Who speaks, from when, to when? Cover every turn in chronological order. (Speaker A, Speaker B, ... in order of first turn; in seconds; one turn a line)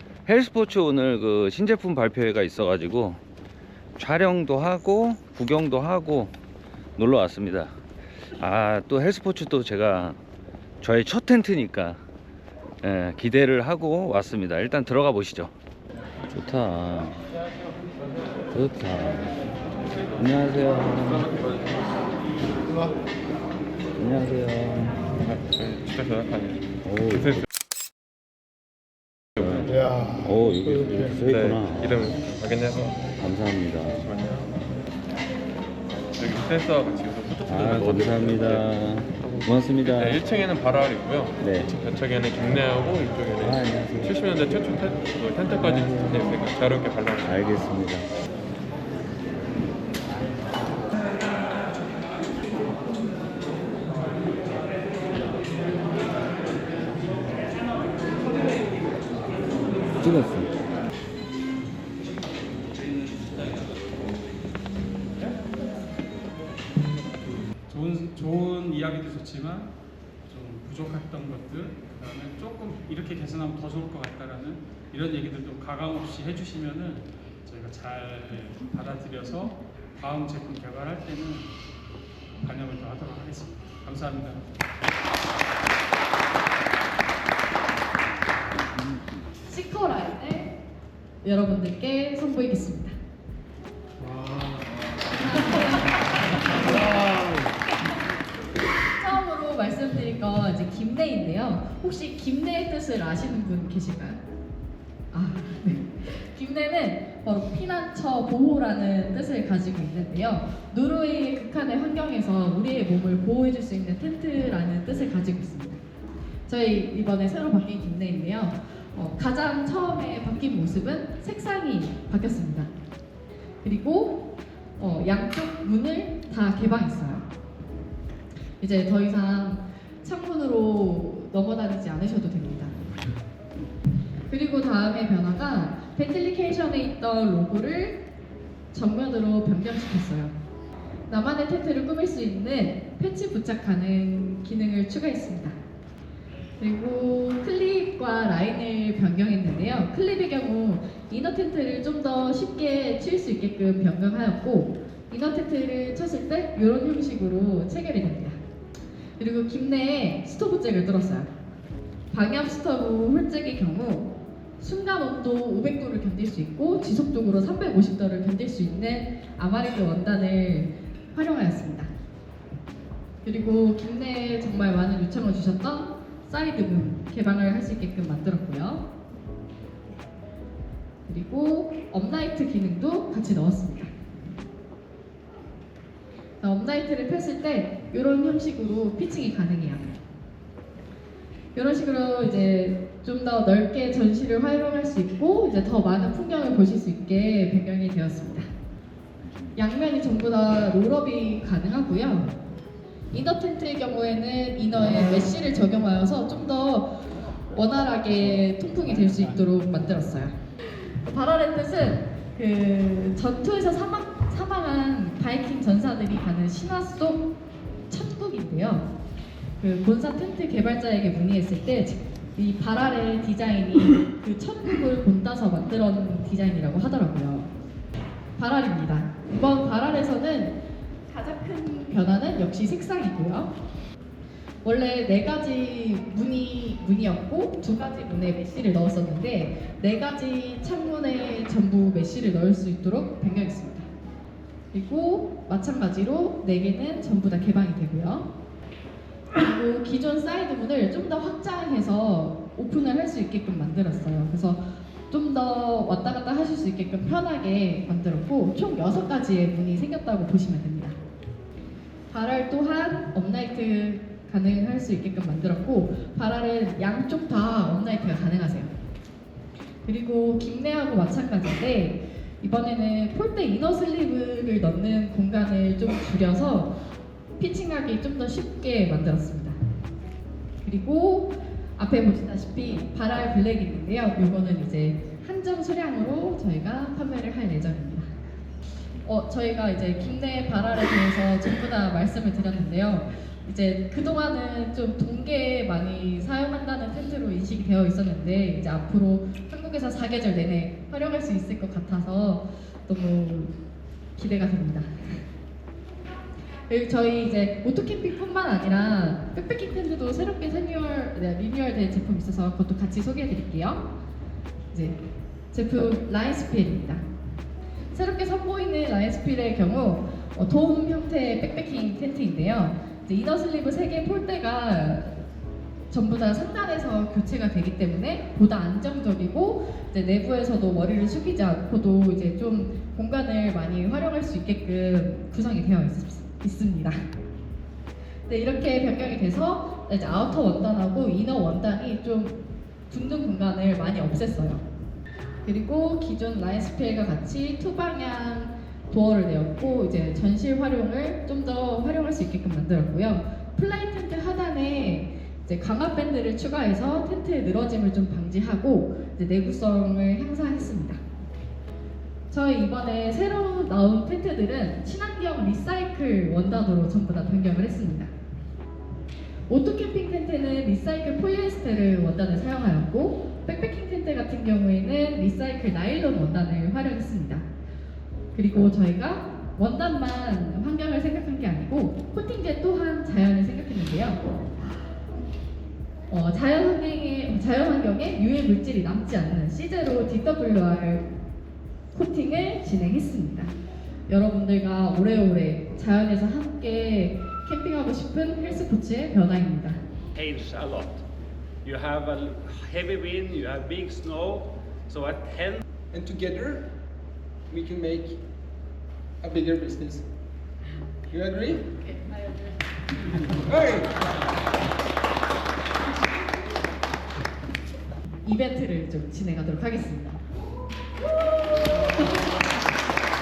Speaker A: 0.2-3.2
Speaker A: 4.0-6.3
Speaker A: 7.0-7.7
Speaker A: 8.4-10.2
Speaker A: 10.8-12.0
Speaker A: 12.8-15.5
Speaker A: 16.3-17.2
Speaker A: 18.5-19.3
Speaker A: 20.1-21.5
Speaker A: 24.0-25.0
Speaker B: 25.1-27.4
Speaker A: 26.8-27.4
Speaker B: 29.4-29.7
Speaker A: 29.4-32.1
Speaker B: 31.2-33.1
Speaker A: 33.1-34.1
Speaker B: 33.9-34.6
Speaker B: 36.1-38.7
Speaker A: 37.5-40.2
Speaker B: 39.2-47.6
Speaker A: 41.4-41.7
Speaker A: 43.4-44.2
Speaker A: 45.6-46.3
Speaker A: 47.2-48.1
Speaker A: 60.0-60.5
Speaker C: 67.7-69.7
Speaker C: 70.3-81.5
Speaker C: 82.4-84.4
Speaker D: 89.4-90.6
Speaker D: 91.2-93.0
Speaker C: 94.1-94.5
Speaker D: 95.3-95.7
Speaker D: 98.8-104.2
Speaker D: 105.1-115.8
Speaker D: 116.5-122.7
Speaker D: 123.6-127.3
Speaker D: 128.6-132.7
Speaker D: 134.3-138.0
Speaker D: 138.7-140.3
Speaker D: 141.1-145.6
Speaker D: 146.6-158.4
Speaker D: 159.2-161.3
Speaker D: 162.1-171.9
Speaker D: 173.2-178.9
Speaker D: 181.1-183.9
Speaker D: 186.4-190.0
Speaker D: 191.5-198.4
Speaker D: 199.5-202.3
Speaker D: 203.1-207.0
Speaker D: 207.5-210.3
Speaker D: 211.0-217.3
Speaker D: 217.9-218.9
Speaker D: 219.6-227.5
Speaker D: 228.3-233.5
Speaker D: 234.6-243.9
Speaker D: 244.7-248.3
Speaker D: 249.3-261.0
Speaker D: 262.1-268.7
Speaker D: 269.9-276.8
Speaker D: 277.4-279.6
Speaker D: 280.6-288.1
Speaker D: 289.0-303.5
Speaker D: 304.1-305.2
Speaker D: 306.7-313.9
Speaker D: 314.7-315.0
Speaker D: 315.5-317.0
Speaker D: 317.9-325.2
Speaker D: 325.9-337.0
Speaker D: 338.3-344.6
Speaker D: 345.4-361.0
Speaker D: 362.3-368.1
Speaker D: 369.5-377.4
Speaker D: 378.3-384.3
Speaker D: 386.1-391.1
Speaker D: 391.9-393.5
Speaker D: 394.1-399.8
Speaker E: 400.1-401.0
Speaker E: 401.6-405.6
Speaker F: 405.9-406.7
Speaker F: 407.5-408.2
Speaker F: 409.2-410.0
Speaker F: 411.1-411.7
Speaker F: 413.4-413.9
Speaker D: 418.2-420.2